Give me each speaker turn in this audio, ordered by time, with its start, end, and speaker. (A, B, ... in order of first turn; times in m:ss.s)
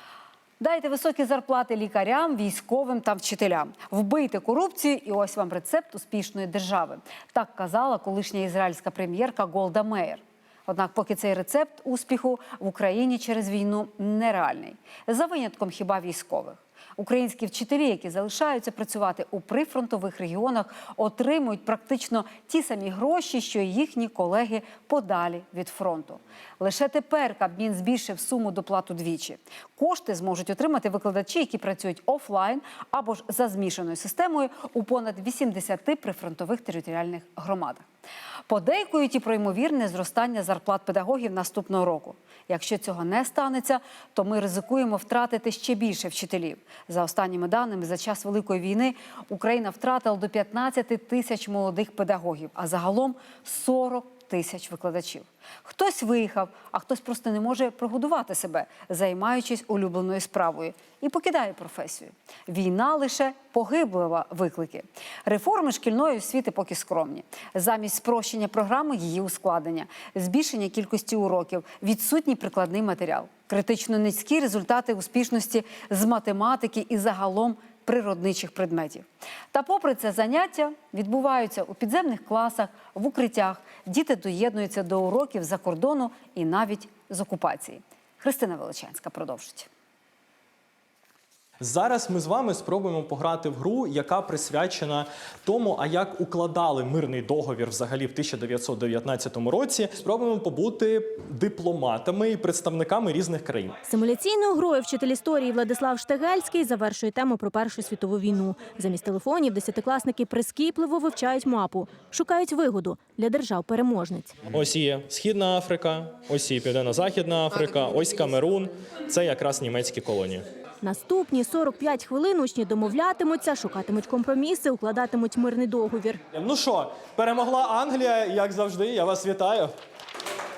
0:00.6-0:37.8 A
0:38.5-1:29.7 A
1:31.6-1:43.8 B
1:43.8-1:54.3 C
1:54.5-2:00.4 B
2:00.8-2:06.2 C
2:06.3-2:09.7 B